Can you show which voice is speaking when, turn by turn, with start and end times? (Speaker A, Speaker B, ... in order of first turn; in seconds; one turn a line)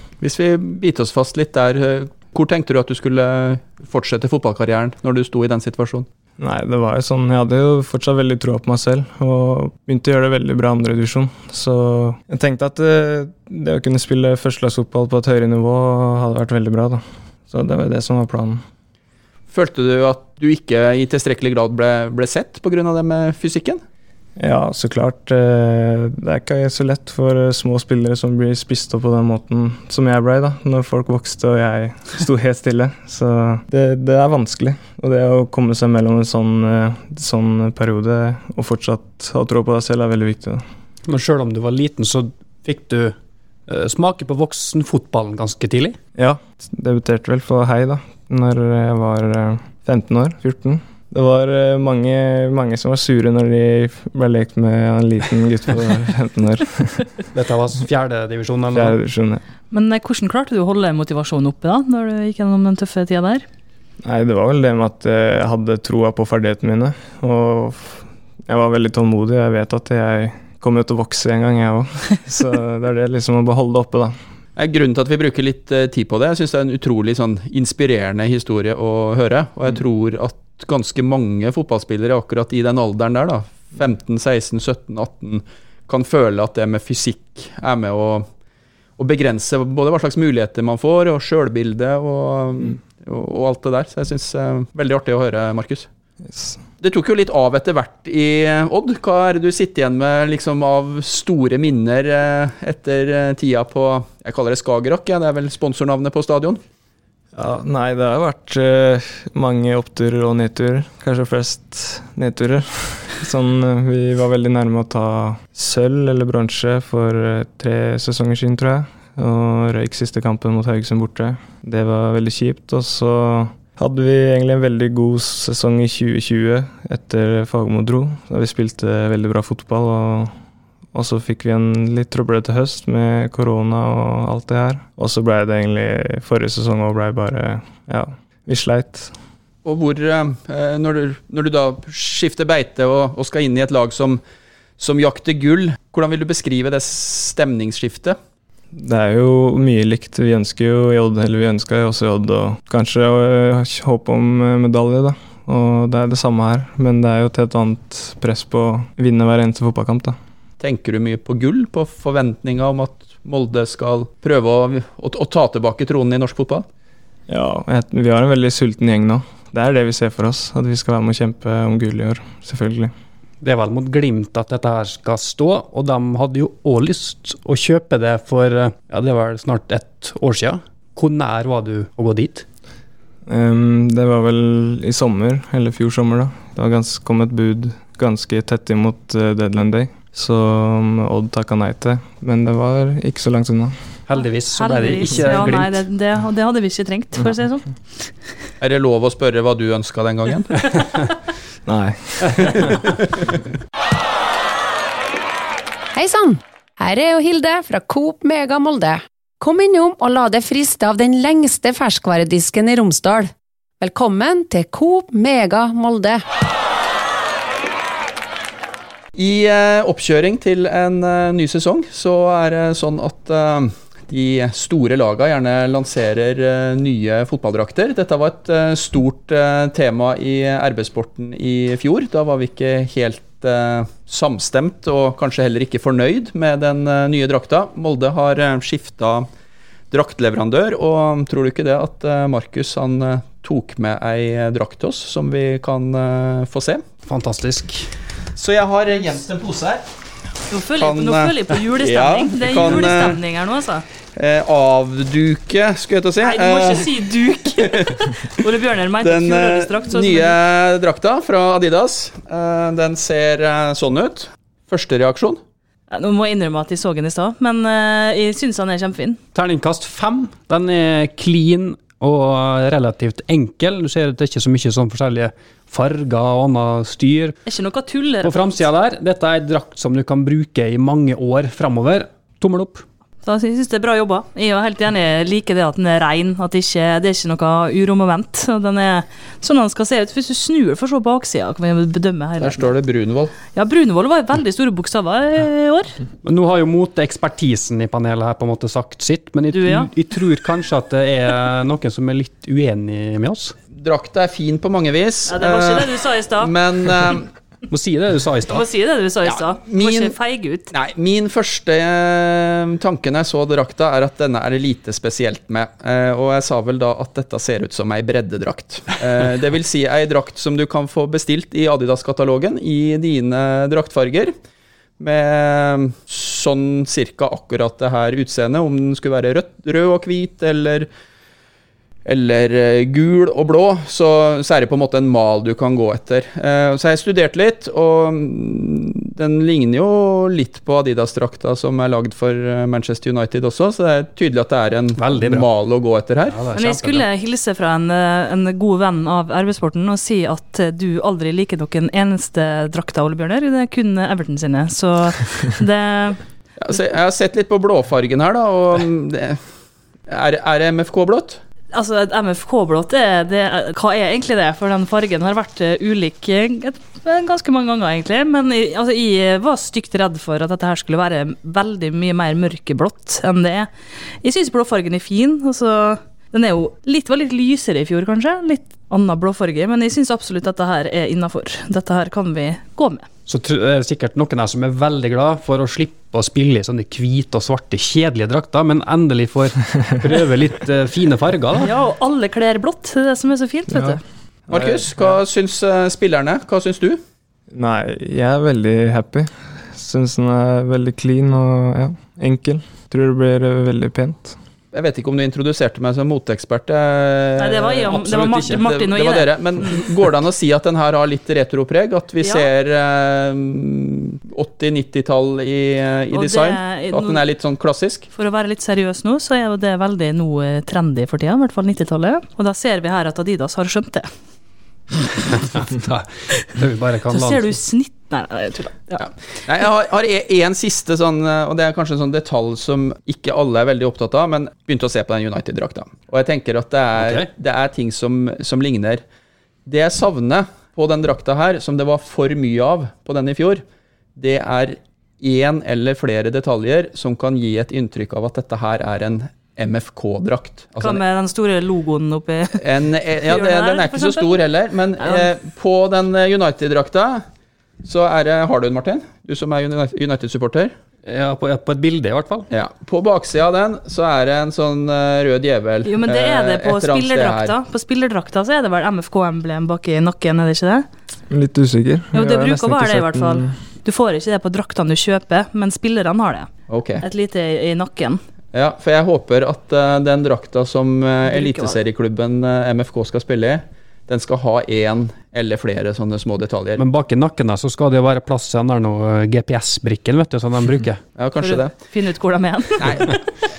Speaker A: 0.2-6.1
Speaker B: 6.4-18.6
Speaker A: 19.5-23.8
Speaker B: 24.4-40.6
Speaker C: 41.0-43.1
Speaker C: 43.7-46.0
Speaker B: 46.1-57.1
Speaker C: 57.3-58.9
Speaker B: 58.7-59.4
Speaker D: 59.7-63.4
Speaker B: 64.0-74.2
Speaker A: 74.5-88.3
Speaker A: 89.0-95.9
Speaker B: 96.2-96.6
Speaker A: 96.8-106.6
Speaker B: 107.3-130.3
Speaker B: 130.9-139.1
Speaker A: 139.6-144.2
Speaker A: 144.8-148.2
Speaker B: 148.7-160.2
Speaker A: 160.6-166.7
Speaker B: 167.3-172.9
Speaker C: 173.4-182.4
Speaker B: 183.3-193.8
Speaker C: 194.1-195.8
Speaker D: 194.2-198.1
Speaker A: 198.6-200.7
Speaker B: 201.7-202.7
Speaker E: 205.9-216.2
Speaker A: 219.2-239.3
Speaker A: 239.9-246.8
Speaker C: 247.0-247.9
Speaker A: 248.3-249.9
Speaker D: 250.5-253.8
Speaker A: 250.8-253.2
Speaker A: 254.2-258.4
Speaker D: 256.2-260.4
Speaker A: 259.0-265.4
Speaker D: 265.9-269.2
Speaker C: 269.3-277.4
Speaker D: 277.4-278.6
Speaker C: 278.2-282.9
Speaker D: 283.2-292.7
Speaker A: 292.4-293.3
Speaker D: 293.5-296.0
Speaker C: 296.2-303.5
Speaker D: 299.5-299.9
Speaker A: 303.7-307.3
Speaker D: 305.3-306.5
Speaker C: 307.7-308.6
Speaker D: 308.5-310.7
Speaker A: 309.2-310.1
Speaker A: 310.7-324.3
Speaker A: 325.0-330.9
Speaker A: 332.0-346.4
Speaker C: 345.0-345.5
Speaker C: 346.3-347.1
Speaker D: 346.5-356.2
Speaker A: 356.6-359.4
Speaker A: 360.1-361.4
Speaker D: 361.7-373.7
Speaker D: 374.2-383.1
Speaker C: 383.3-391.7
Speaker D: 391.6-394.0
Speaker B: 393.7-394.9
Speaker A: 394.5-397.0
Speaker B: 397.5-404.4
Speaker A: 404.7-418.1
Speaker D: 407.4-409.8
Speaker C: 407.8-408.7
Speaker D: 412.2-412.5
Speaker D: 416.1-417.2
Speaker D: 418.1-424.1
Speaker C: 425.3-427.6
Speaker D: 427.1-429.1
Speaker A: 429.0-439.0
Speaker C: 437.0-437.3
Speaker A: 439.6-443.6
Speaker A: 444.1-451.0
Speaker D: 450.8-452.6
Speaker A: 452.6-457.2
Speaker D: 453.2-454.4
Speaker D: 455.0-455.3
Speaker A: 457.8-460.7
Speaker C: 461.1-462.5
Speaker A: 462.5-467.5
Speaker D: 465.8-470.9
Speaker B: 471.3-473.6
Speaker D: 472.1-476.5
Speaker A: 476.7-477.0
Speaker D: 477.0-478.2
Speaker A: 478.5-486.8
Speaker D: 481.3-481.8
Speaker C: 486.8-491.0
Speaker A: 491.2-491.8
Speaker D: 491.4-493.2
Speaker A: 492.8-493.2